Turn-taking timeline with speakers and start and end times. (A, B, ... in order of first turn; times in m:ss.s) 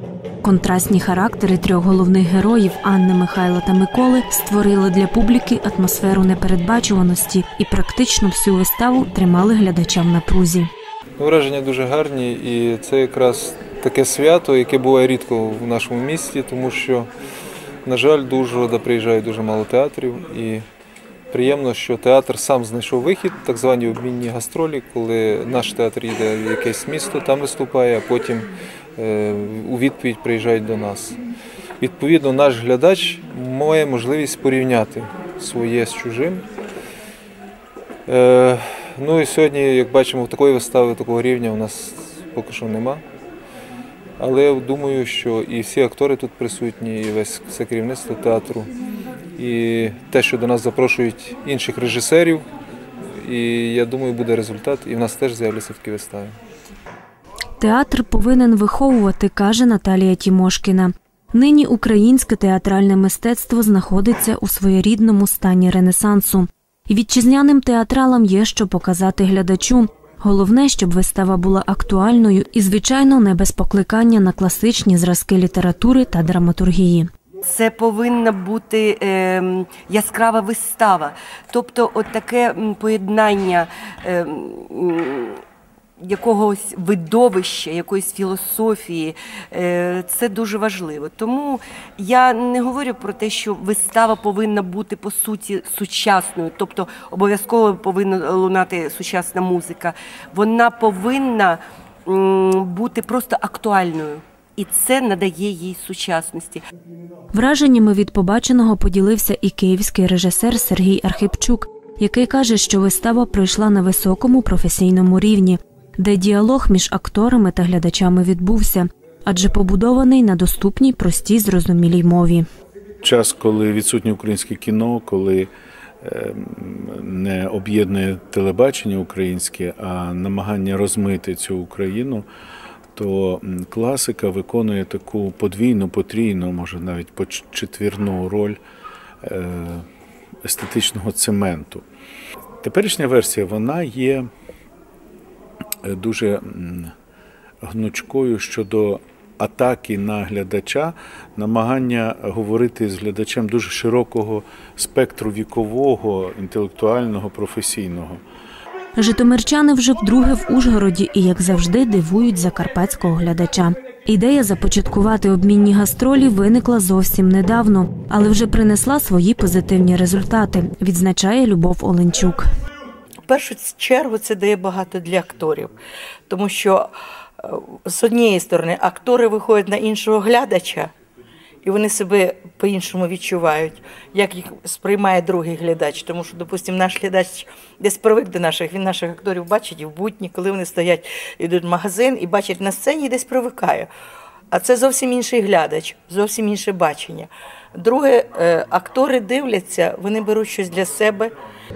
0:00.4-0:10.7 A
0:11.2-0:17.1 B
0:17.8-0:20.6 B
0:21.3-0:31.2 B
0:31.8-0:36.4 B
0:38.1-0:43.0 B
0:44.2-0:48.7 B
0:49.4-0:52.4 B
0:53.1-0:56.4 B
0:57.6-1:17.1 A
1:17.4-1:25.4 C
1:26.0-1:46.6 C
1:47.3-2:02.4 A
2:03.0-2:05.5 D
2:06.0-2:12.2 D
2:12.9-2:18.6 D
2:19.2-2:19.8 D
2:20.4-2:21.8 D
2:22.6-2:24.3 D
2:25.8-2:26.9 D
2:27.6-2:38.2 D
2:39.0-2:52.5 A
2:53.3-2:55.7 E
2:56.3-3:00.9 E
3:01.6-3:13.9 E
3:14.5-3:21.3 E